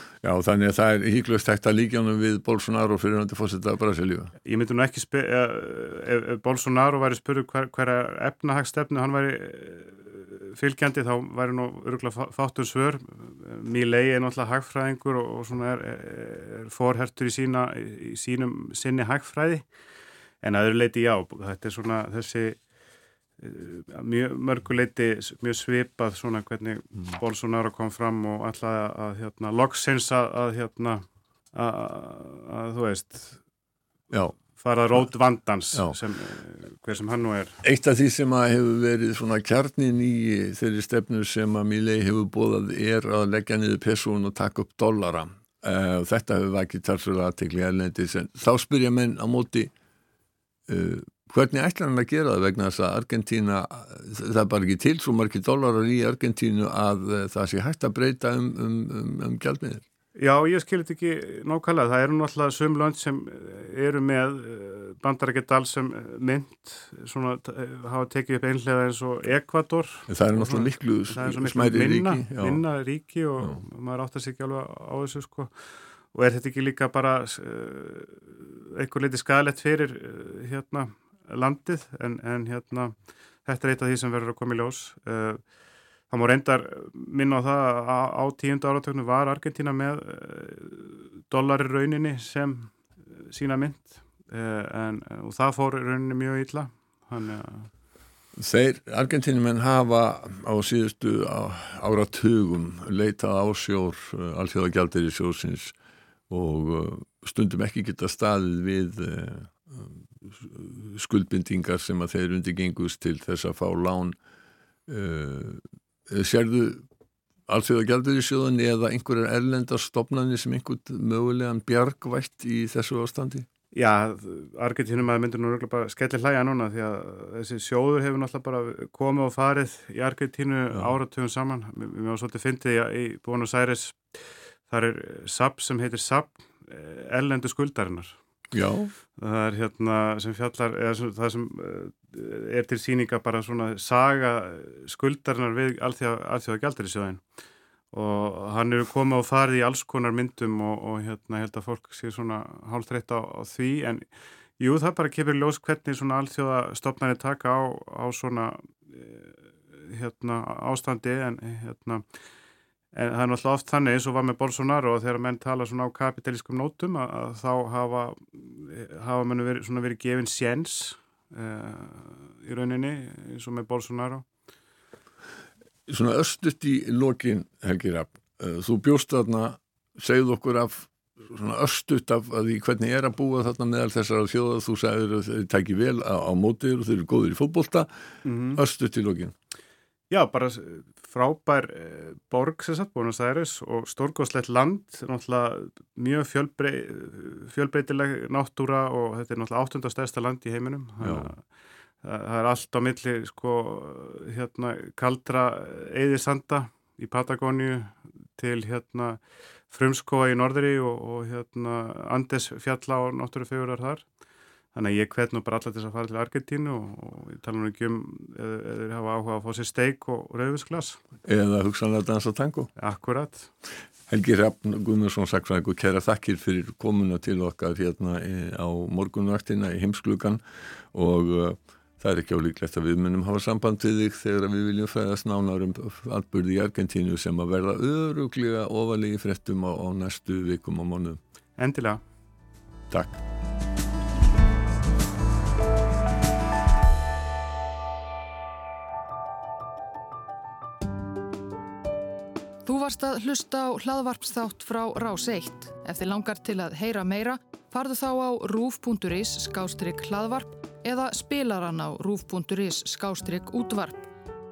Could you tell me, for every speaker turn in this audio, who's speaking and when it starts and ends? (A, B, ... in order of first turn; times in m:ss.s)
0:00.2-0:04.3 A
0:04.4-0:19.7 B
0:20.4-0:22.6 B
0:23.4-0:33.4 B
0:34.1-0:34.4 A
0:34.5-0:37.6 B
0:37.6-0:49.7 A
0:50.7-0:59.8 A
1:00.2-1:15.5 B
1:10.1-1:12.6 A
1:16.1-1:22.9 B
1:23.4-1:25.4 B
1:26.1-1:37.7 B
1:38.4-1:45.7 A
1:46.3-1:54.2 A
1:54.9-1:56.8 A
1:57.5-2:03.5 A
2:03.7-2:18.2 B
2:18.5-2:18.9 A
2:19.2-2:27.2 B
2:27.9-2:34.1 B
2:34.6-2:39.3 B
2:39.9-2:42.0 B
2:42.9-2:54.3 B
2:55.9-3:07.9 A
3:08.2-3:08.6 B
3:08.6-3:09.3 A
3:10.1-3:21.4 B
3:21.0-3:21.3 A
3:22.0-3:34.0 B
3:34.7-3:41.0 B
3:41.3-3:42.7 A
3:42.8-3:43.5 B
3:44.1-3:50.4 A
3:50.9-4:01.2 A
4:01.6-4:02.0 B
4:02.9-4:03.2 A
4:12.6-4:24.1 C